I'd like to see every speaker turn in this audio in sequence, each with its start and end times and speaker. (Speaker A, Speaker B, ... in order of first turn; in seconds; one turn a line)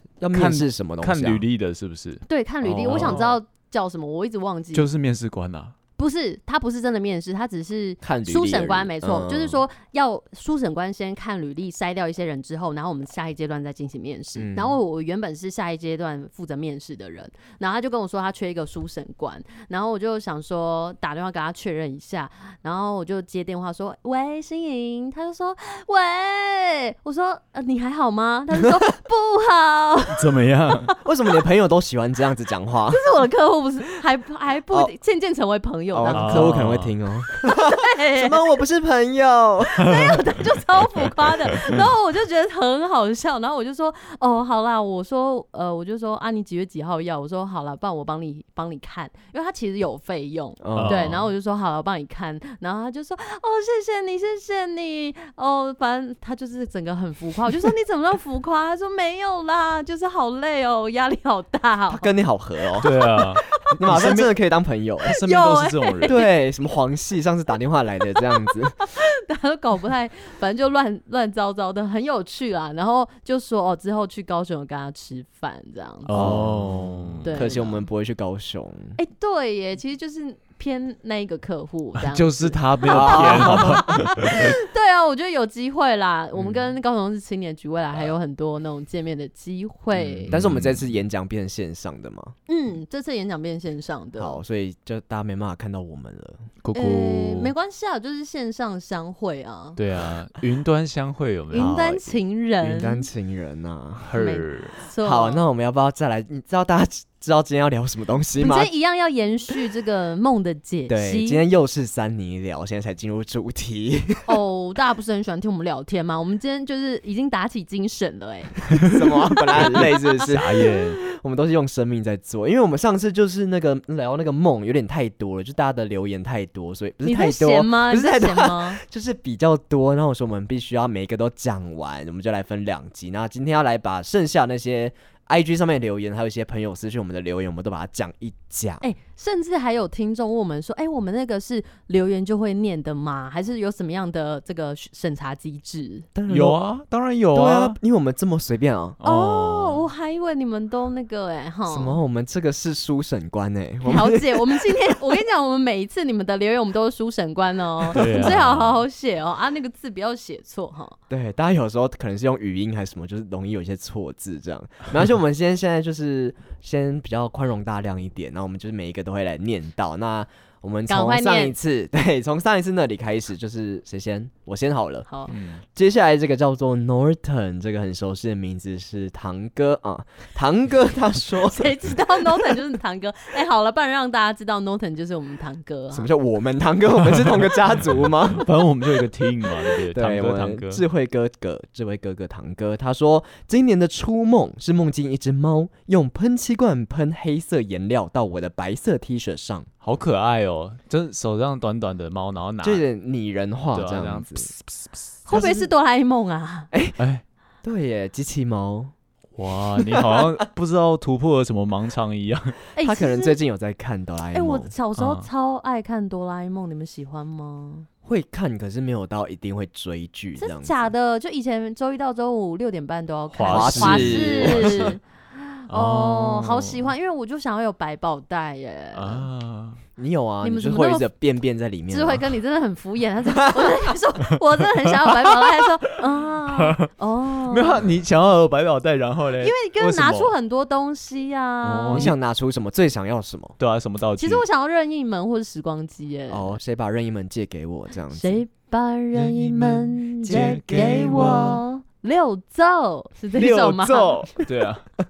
Speaker A: 0.2-1.4
Speaker B: 0.3-3.4
Speaker C: 2.3-4.9
Speaker A: 2.9-3.2
Speaker B: 4.7-5.7
Speaker C: 6.0-30.3
Speaker A: 8.0-9.6
Speaker A: 14.3-14.8
Speaker B: 30.1-30.9
Speaker A: 31.0-33.0
Speaker C: 32.9-36.6
Speaker A: 35.9-40.0
Speaker B: 36.1-36.9
Speaker C: 37.3-38.4
Speaker C: 39.7-62.1
Speaker A: 50.6-51.2
Speaker B: 50.7-51.2
Speaker A: 61.9-62.9
Speaker C: 62.8-63.5
Speaker B: 62.8-64.3
Speaker A: 63.7-65.1
Speaker B: 65.0-66.2
Speaker C: 65.2-66.3
Speaker A: 66.0-68.8
Speaker C: 68.4-76.4
Speaker B: 76.0-77.4
Speaker A: 76.1-79.0
Speaker C: 77.2-77.8
Speaker C: 79.0-90.3
Speaker B: 82.0-84.5
Speaker A: 82.8-84.0
Speaker B: 89.9-90.9
Speaker A: 90.3-92.3
Speaker C: 92.5-94.4
Speaker A: 94.2-96.5
Speaker B: 96.6-97.5
Speaker C: 96.7-99.8
Speaker B: 99.8-102.0
Speaker C: 101.5-103.0
Speaker A: 101.5-104.1
Speaker B: 104.0-104.8
Speaker C: 104.1-105.4
Speaker A: 105.0-108.7
Speaker C: 108.4-111.4
Speaker A: 110.9-114.4
Speaker C: 114.3-119.8
Speaker A: 118.8-138.8
Speaker B: 120.2-121.0
Speaker C: 127.0-128.8
Speaker C: 138.8-146.1
Speaker A: 146.1-146.6
Speaker B: 146.3-147.8
Speaker A: 147.3-149.0
Speaker B: 149.0-149.9
Speaker C: 149.0-152.0
Speaker A: 151.7-154.9
Speaker C: 153.8-160.9
Speaker A: 157.9-158.4
Speaker B: 157.9-158.8
Speaker A: 161.1-175.1
Speaker C: 170.9-171.5
Speaker C: 175.1-175.3
Speaker B: 175.3-175.6
Speaker A: 175.7-182.6
Speaker C: 181.4-186.1
Speaker A: 185.9-188.5
Speaker B: 188.3-190.8
Speaker A: 189.9-199.7
Speaker B: 199.8-202.8
Speaker A: 202.6-204.5
Speaker B: 203.7-205.5
Speaker C: 205.2-206.7
Speaker A: 205.3-205.7
Speaker A: 206.7-207.0
Speaker A: 207.6-208.9
Speaker B: 209.3-212.6
Speaker A: 209.8-210.3
Speaker C: 212.8-213.4
Speaker A: 212.8-214.7
Speaker C: 214.3-217.9
Speaker B: 215.0-215.3
Speaker A: 218.0-220.9
Speaker C: 220.4-229.3
Speaker B: 223.3-225.0
Speaker A: 223.5-224.9
Speaker B: 225.7-226.9
Speaker B: 228.9-229.8
Speaker A: 230.0-232.2
Speaker C: 230.4-231.1
Speaker C: 231.9-237.8
Speaker A: 233.4-233.7
Speaker B: 236.5-236.9
Speaker B: 237.5-240.3
Speaker C: 239.4-242.1
Speaker A: 241.6-243.6
Speaker B: 243.6-244.4
Speaker C: 244.2-246.6
Speaker A: 246.3-248.4
Speaker C: 248.1-254.3
Speaker B: 249.1-251.6
Speaker A: 250.2-251.6
Speaker B: 253.3-254.9